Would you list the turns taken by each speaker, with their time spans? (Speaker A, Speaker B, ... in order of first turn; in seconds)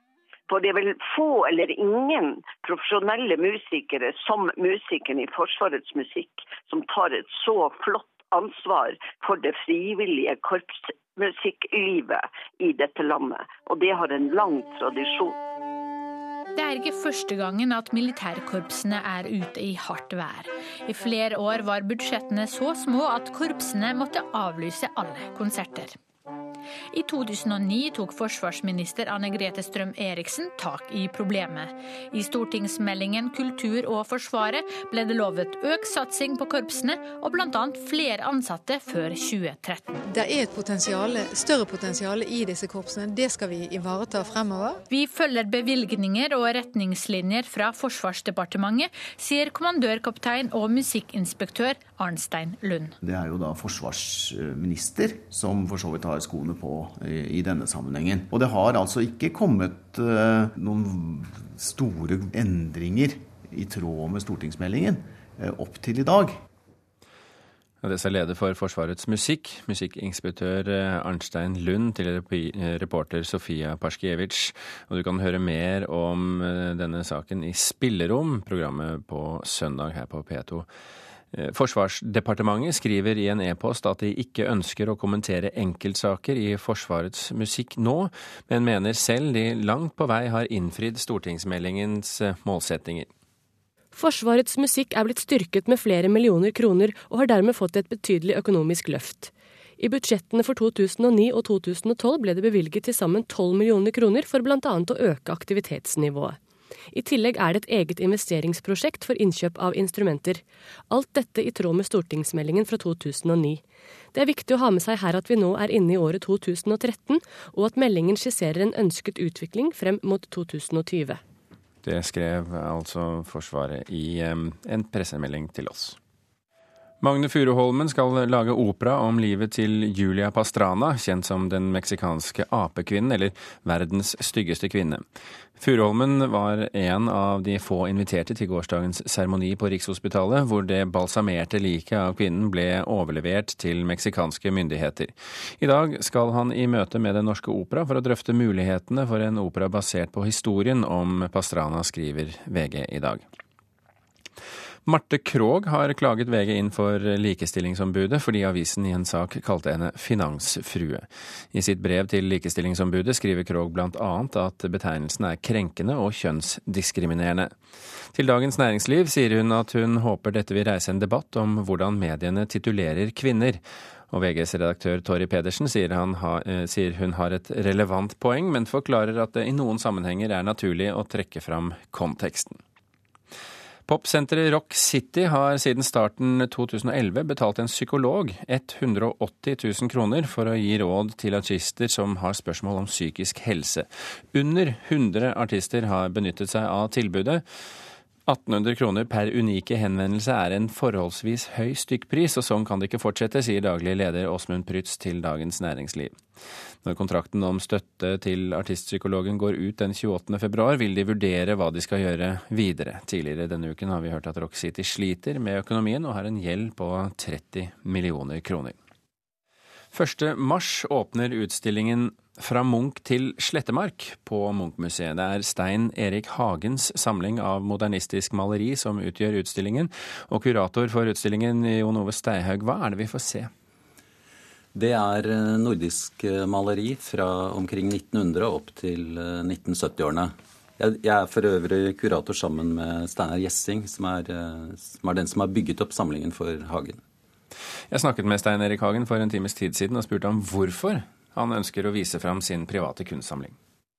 Speaker A: 0.5-15.3
Speaker B: 16.6-26.0, 26.9-40.0, 44.9-52.9
Speaker C: 40.1-44.8
Speaker D: 53.2-61.1, 61.6-66.3
Speaker E: 67.8-80.7, 81.3-93.1, 121.8-126.0, 127.0-135.0, 135.6-153.2, 154.8-167.5, 168.1-182.6, 183.8-197.4, 198.3-206.2, 206.8-218.7, 219.9-233.5, 247.9-253.5
Speaker F: 93.9-106.4, 106.9-113.6, 114.1-121.2
Speaker G: 234.7-247.0